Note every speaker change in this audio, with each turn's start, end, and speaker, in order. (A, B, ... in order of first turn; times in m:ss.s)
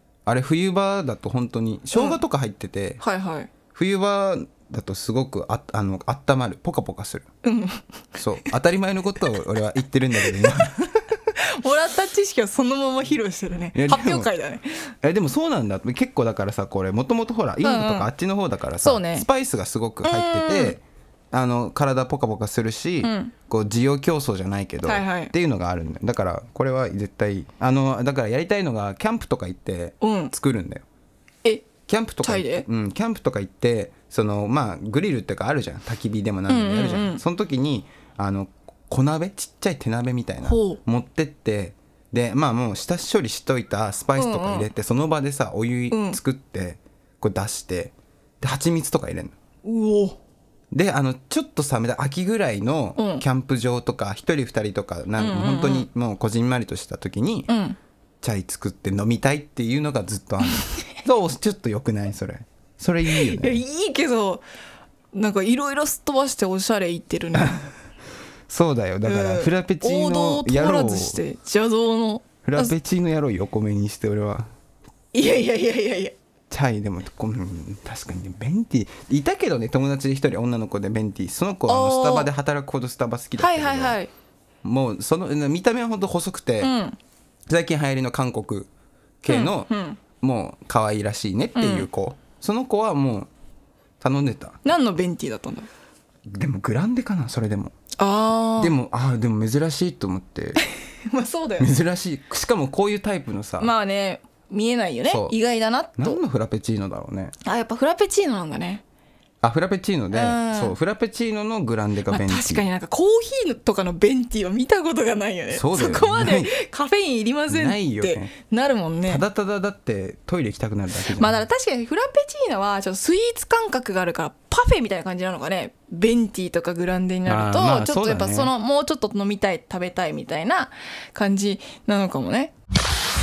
0:00.3-0:03.0 A
0:01.9-0:02.2 B
0:03.0-0:03.5 B
0:03.7-0:07.2 A
0:07.4-0:07.8 B
0:08.2-0:11.0 A
0:10.2-0:10.6 B
0:11.3-0:14.9 B
0:13.8-0:14.3 A
0:15.0-0:30.8 A
0:17.6-0:18.1 B
0:18.8-0:19.3 B
0:20.0-0:20.8 B
0:23.0-0:23.3 B
0:24.8-0:25.3 B
0:30.0-0:30.3 B
0:31.4-0:32.7 B
0:31.9-0:49.3 A
0:36.5-0:37.2 B
0:40.4-0:40.8 B
0:44.2-0:44.7 B
0:45.9-0:46.2 B
0:49.6-0:50.2 B
0:50.7-0:57.5 A
0:53.0-0:53.2 B
0:55.2-0:55.9 B
0:57.5-0:57.8 B
0:58.2-1:03.6 A
1:03.1-1:04.4 B
1:05.1-1:07.7 B
1:08.5-1:11.2 A
1:09.0-1:12.7 B
1:12.4-1:14.5 A
1:15.1-1:16.2 B
1:16.5-1:24.0 A
1:21.7-1:22.3 B
1:23.4-1:24.1 B
1:24.6-1:26.7 A
1:26.6-1:27.0 B
1:27.5-1:28.7 A
1:29.2-1:33.3 A
1:29.3-1:30.0 B
1:31.6-1:31.9 B
1:34.0-1:34.6 A
1:34.6-1:35.7 B
1:36.3-1:37.7 A
1:38.0-1:38.8 B
1:38.6-1:40.6 A
1:40.8-1:41.7 B
1:41.6-1:43.7 A
1:43.6-1:46.2 B
1:45.1-1:45.4 A
1:46.0-1:47.3 A
1:47.4-1:48.8 B
1:49.4-1:52.7 A
1:50.1-1:50.8 B
1:52.1-1:59.2 B
1:55.5-1:56.5 A
1:57.5-1:58.3 A
1:59.1-2:01.4 A
2:01.0-2:12.5 B
2:07.3-2:08.5 A